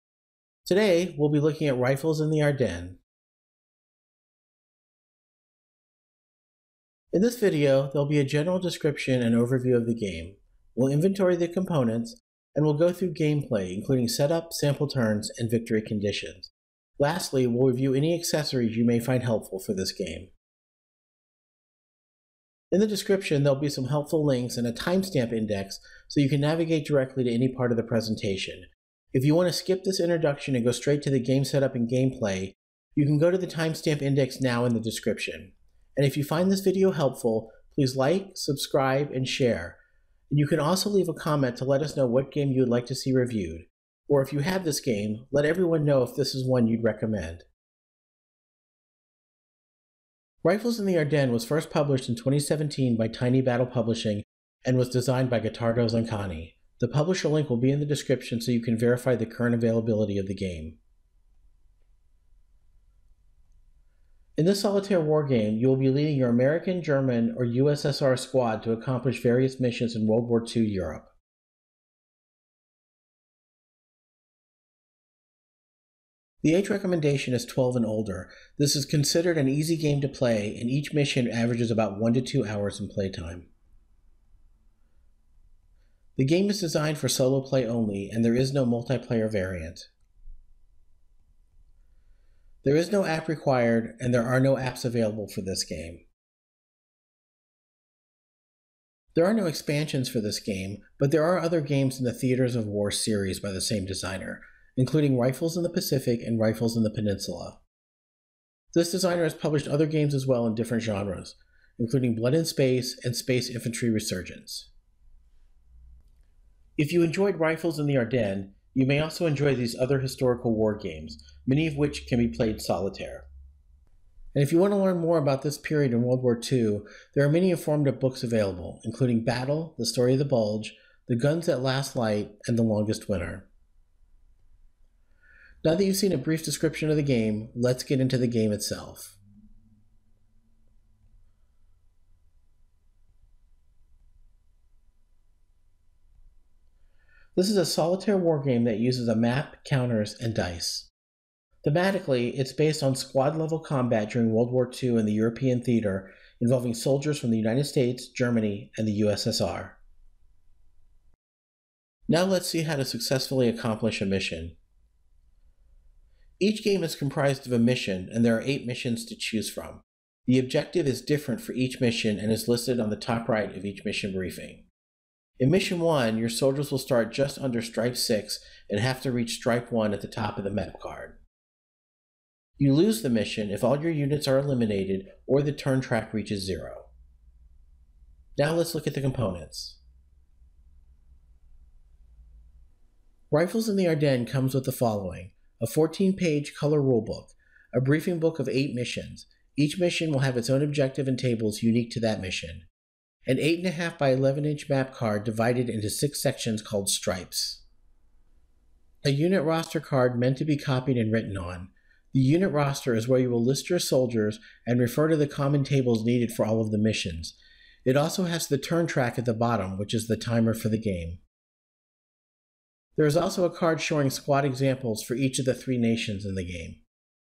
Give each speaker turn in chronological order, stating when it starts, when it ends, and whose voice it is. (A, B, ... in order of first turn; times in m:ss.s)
0:00.7-0:03.0 A
0:07.1-0:20.3 A
0:22.7-0:39.8 A
0:40.3-0:47.5 A
0:50.4-1:00.8 A
1:04.4-1:11.1 A
1:16.4-1:23.5 A
1:26.2-1:29.9 A
1:32.6-1:36.0 A
1:39.2-1:47.6 A
1:48.7-1:54.7 A
1:56.8-2:03.3 A
2:04.3-2:13.5 A
2:15.6-2:19.2 A
2:27.4-2:30.9 A
2:31.6-2:39.8 A
2:42.1-2:44.6 A
2:46.4-2:54.7 A
2:55.4-3:01.2 A
3:02.6-3:06.9 A
3:08.4-3:09.8 A
3:13.3-3:22.7 A
3:23.3-3:27.6 A
3:29.0-3:41.2 A
3:43.0-3:46.8 A